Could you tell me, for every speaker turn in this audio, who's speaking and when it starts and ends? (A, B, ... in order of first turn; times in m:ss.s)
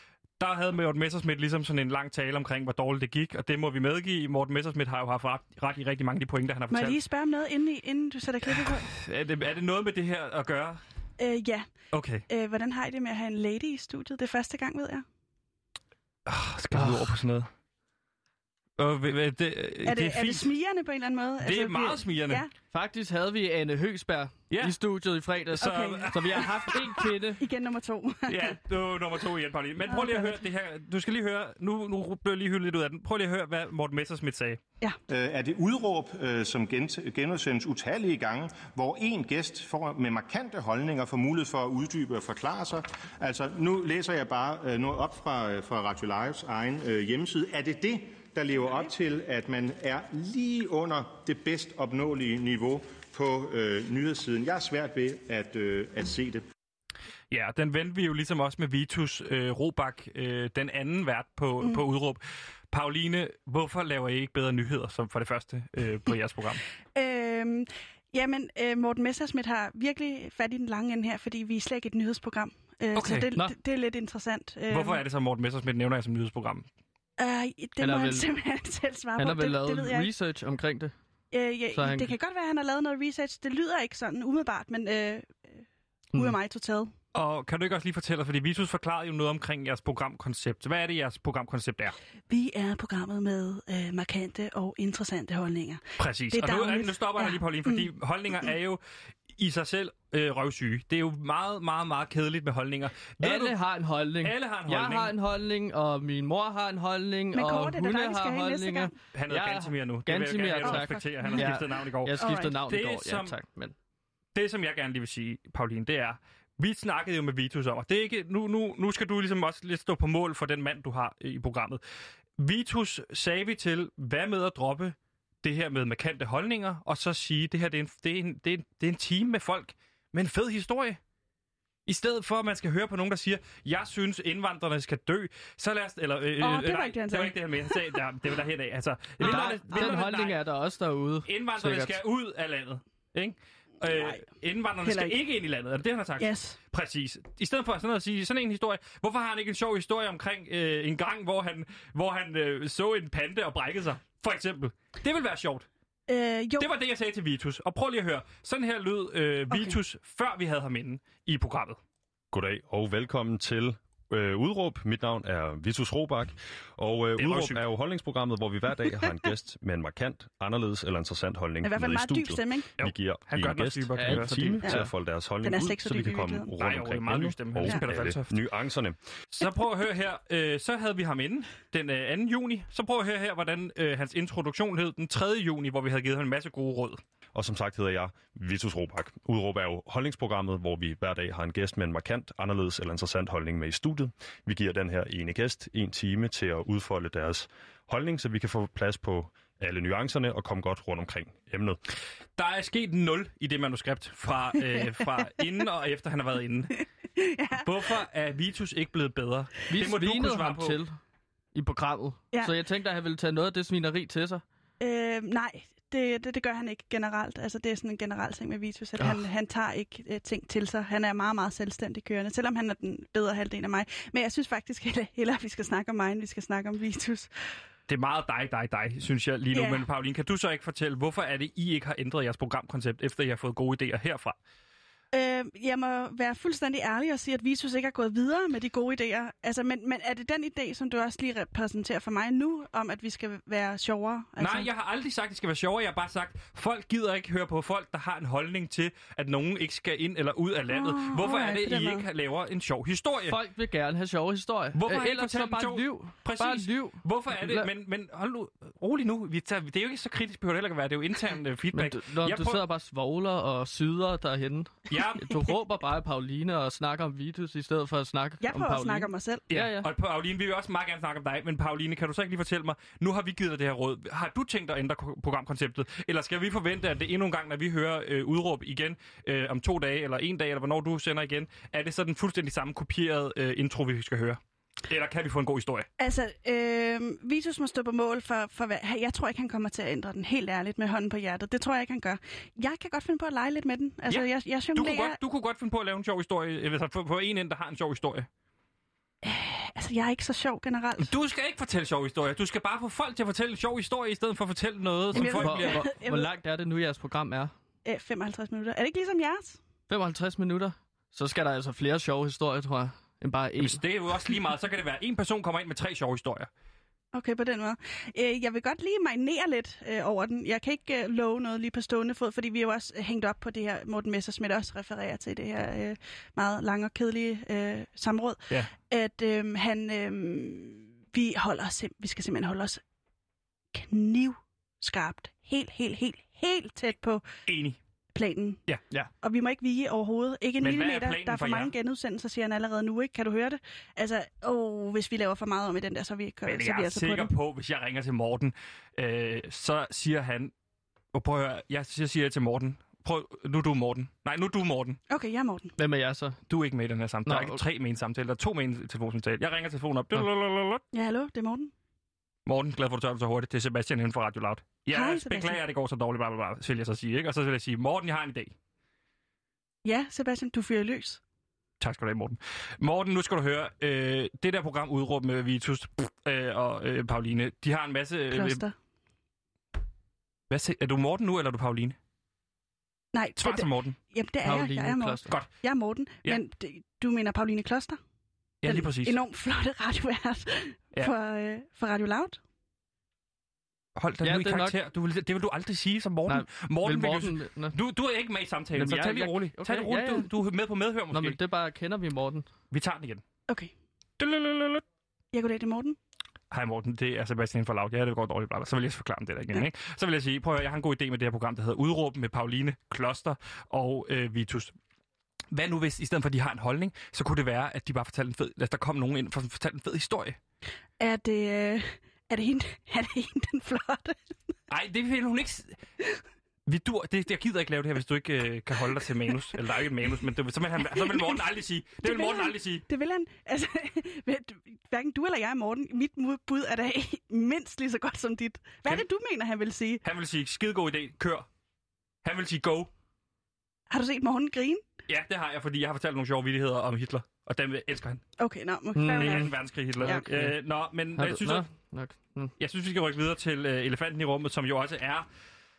0:00.4-0:07.0 A
0:06.7-0:08.9 B
0:08.4-0:10.8 A
0:11.2-0:11.7 B
0:11.9-0:12.2 A
0:12.3-0:15.0 B
0:16.2-0:17.5 A
0:16.7-0:17.2 C
0:18.8-0:20.5 A
0:19.8-0:22.5 B
0:21.4-0:22.4 A
0:22.7-0:27.4 C
0:24.5-0:24.8 A
0:25.6-0:26.8 B
0:25.6-0:27.0 A
0:27.4-0:28.6 B
0:28.3-0:34.6 A
0:29.9-0:30.4 B
0:35.1-0:56.4 D
0:57.3-1:06.6 A
1:06.9-1:15.0 B
1:12.9-1:13.3 A
1:14.7-1:16.6 A
1:17.2-1:20.1 B
1:17.8-1:18.3 C
1:19.2-1:20.9 C
1:21.3-1:25.6 B
1:21.7-1:22.1 C
1:26.1-1:26.9 B
1:27.1-1:32.0 A
1:32.3-1:37.9 B
1:36.0-1:38.8 A
1:39.4-1:43.6 A
1:43.2-1:53.7 C
1:44.2-1:45.1 A
1:47.3-1:48.9 B
1:49.1-1:53.3 A
1:50.6-1:52.6 B
1:54.3-2:01.8 A
2:02.4-2:11.0 A
2:11.9-2:20.4 A
2:16.4-2:18.0 B
2:19.2-2:20.0 B
2:19.2-2:22.0 C
2:21.2-2:35.7 A
2:23.8-2:24.2 B
2:24.8-2:25.2 B
2:26.2-2:26.6 B
2:36.1-2:36.7 B
2:36.6-2:41.8 A
2:39.5-2:39.8 B
2:42.3-2:59.0 E
2:47.2-2:47.6 A
2:51.6-2:52.7 B
2:52.8-2:54.5 A
2:54.0-2:54.9 C
2:55.4-2:56.5 B
2:56.6-2:58.4 A
2:59.3-3:07.0 A
3:07.3-3:21.8 E
3:22.4-3:26.8 A
3:24.7-3:25.4 B
3:27.2-3:27.9 B
3:27.6-3:30.8 A
3:29.7-3:31.0 C
3:31.5-3:34.4 C
3:34.8-3:47.6 B
3:47.9-3:54.4 A
3:49.5-3:49.8 B
3:55.1-4:04.7 B
4:04.4-4:13.4 A
4:10.7-4:12.0 B
4:13.2-4:17.7 C
4:14.8-4:22.6 A
4:21.7-4:29.9 C
4:24.9-4:25.4 A
4:28.4-4:29.4 B
4:29.5-4:45.9 A
4:46.0-4:55.2 B
4:54.1-4:58.3 A
4:59.2-5:01.1 B
5:01.0-5:05.8 A
5:05.1-5:07.5 C
5:05.1-5:06.3 B
5:07.8-5:09.6 B
5:09.9-5:13.8 C
5:13.6-5:16.5 A
5:17.1-5:32.8 B
5:33.7-5:37.2 B
5:37.4-5:37.8 A
5:38.1-5:38.6 B
5:39.2-5:47.3 B
5:40.6-5:41.7 A
5:46.4-5:50.5 A
5:51.1-5:55.0 A
5:55.1-5:55.7 B
5:55.8-5:56.4 C
5:56.5-6:00.8 A
5:57.2-5:57.6 C
6:00.9-6:01.7 B
6:02.4-6:08.5 A
6:04.9-6:05.6 B
6:09.8-6:11.2 B
6:11.8-6:18.6 A
6:18.3-6:18.7 B
6:20.5-6:22.0 A
6:23.1-6:28.0 B
6:23.4-6:24.0 A
6:24.4-6:25.3 C
6:28.6-6:29.2 A
6:28.6-6:32.4 B
6:34.0-6:41.4 A
6:34.2-6:34.8 C
6:36.3-6:37.8 C
6:38.8-6:40.3 C
6:41.1-6:42.4 C
6:42.7-6:43.2 A
6:44.2-6:44.8 A
6:45.3-6:46.0 B
6:46.5-6:54.7 A
6:55.5-7:00.4 A
7:01.0-7:04.3 B
7:04.7-7:05.8 A
7:06.6-7:12.8 A
7:10.8-7:11.4 B
7:12.0-7:20.0 B
7:20.0-7:21.5 A
7:22.2-7:22.9 A
7:23.9-7:24.8 B
7:25.1-7:28.2 A
7:28.4-7:30.2 B
7:28.9-7:30.6 C
7:29.1-7:31.7 A
7:31.1-7:32.5 C
7:32.6-7:35.2 A